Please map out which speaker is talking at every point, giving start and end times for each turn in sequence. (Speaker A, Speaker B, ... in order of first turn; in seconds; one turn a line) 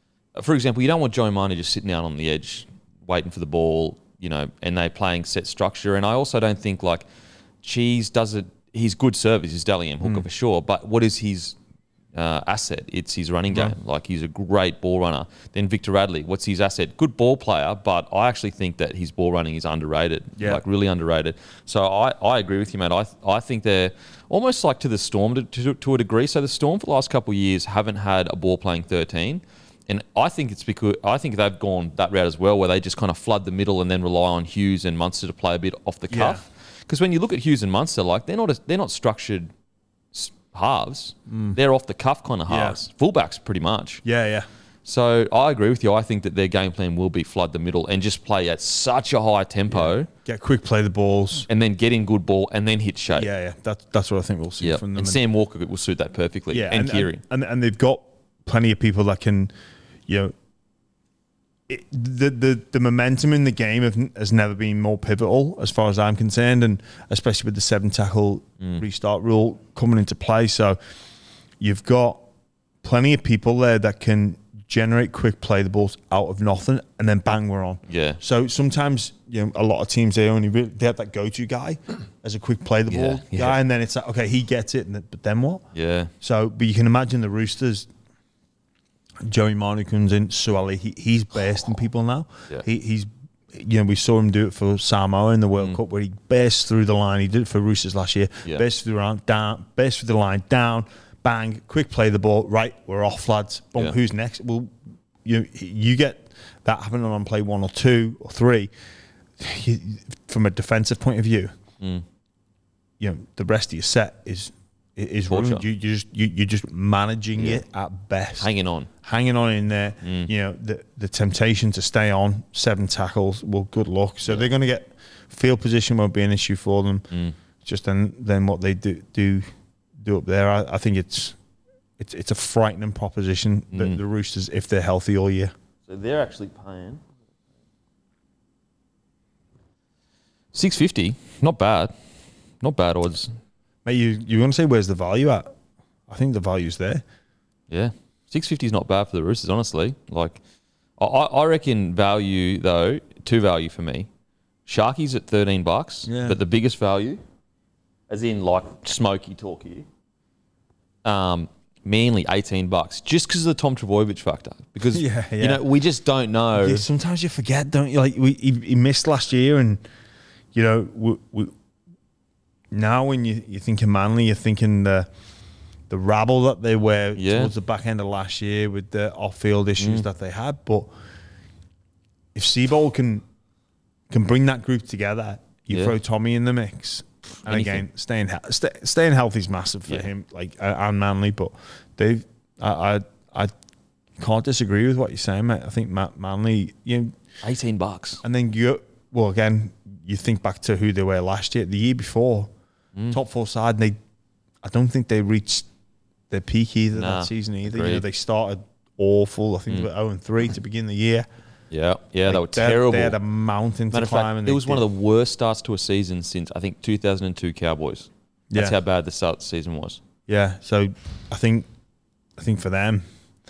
Speaker A: 0.4-7.0
Speaker A: 7.6-11.6
Speaker A: 12.2-39.5
Speaker B: 13.5-13.8
Speaker B: 20.4-20.6
Speaker B: 36.1-36.4
Speaker A: 40.1-44.0
Speaker B: 41.3-41.6
Speaker B: 42.5-42.8
Speaker B: 44.0-44.5
Speaker A: 44.9-50.1
Speaker B: 49.7-51.5
Speaker A: 51.5-53.3
Speaker B: 53.1-55.2
Speaker A: 54.6-57.2
Speaker B: 56.5-59.5
Speaker B: 60.1-60.3
Speaker B: 61.7-70.8
Speaker B: 71.6-72.2
Speaker B: 72.8-85.6
Speaker A: 77.9-78.2
Speaker A: 82.9-83.6
Speaker A: 85.7-86.1
Speaker B: 86.2-87.9
Speaker B: 89.2-108.7
Speaker B: 109.4-111.5
Speaker A: 111.8-112.0
Speaker B: 113.0-118.5
Speaker A: 115.3-115.6
Speaker A: 117.4-117.6
Speaker A: 118.4-118.9
Speaker B: 119.0-127.1
Speaker A: 120.0-120.3
Speaker A: 127.1-127.4
Speaker B: 127.6-129.5
Speaker B: 130.0-131.4
Speaker B: 132.0-135.5
Speaker A: 133.7-134.0
Speaker A: 135.9-137.0
Speaker A: 140.5-141.9
Speaker A: 142.6-143.4
Speaker B: 143.8-145.5
Speaker B: 146.1-147.0
Speaker A: 147.7-150.4
Speaker A: 151.0-154.1
Speaker A: 154.7-157.2
Speaker B: 156.1-156.4
Speaker A: 158.1-159.9
Speaker A: 161.1-166.8
Speaker B: 164.9-165.6
Speaker B: 166.6-169.8
Speaker B: 170.5-171.5
Speaker B: 172.7-175.1
Speaker B: 175.9-180.9
Speaker A: 177.2-177.5
Speaker A: 179.8-180.1
Speaker B: 182.3-183.2
Speaker B: 184.1-193.5
Speaker A: 187.4-187.8
Speaker B: 194.2-197.2
Speaker A: 197.4-198.2
Speaker B: 198.2-202.5
Speaker B: 203.1-204.0
Speaker B: 204.6-205.7
Speaker B: 206.3-211.3
Speaker A: 206.9-208.1
Speaker A: 211.7-213.2
Speaker B: 212.3-214.8
Speaker A: 213.9-220.0
Speaker B: 220.3-221.7
Speaker B: 222.4-223.1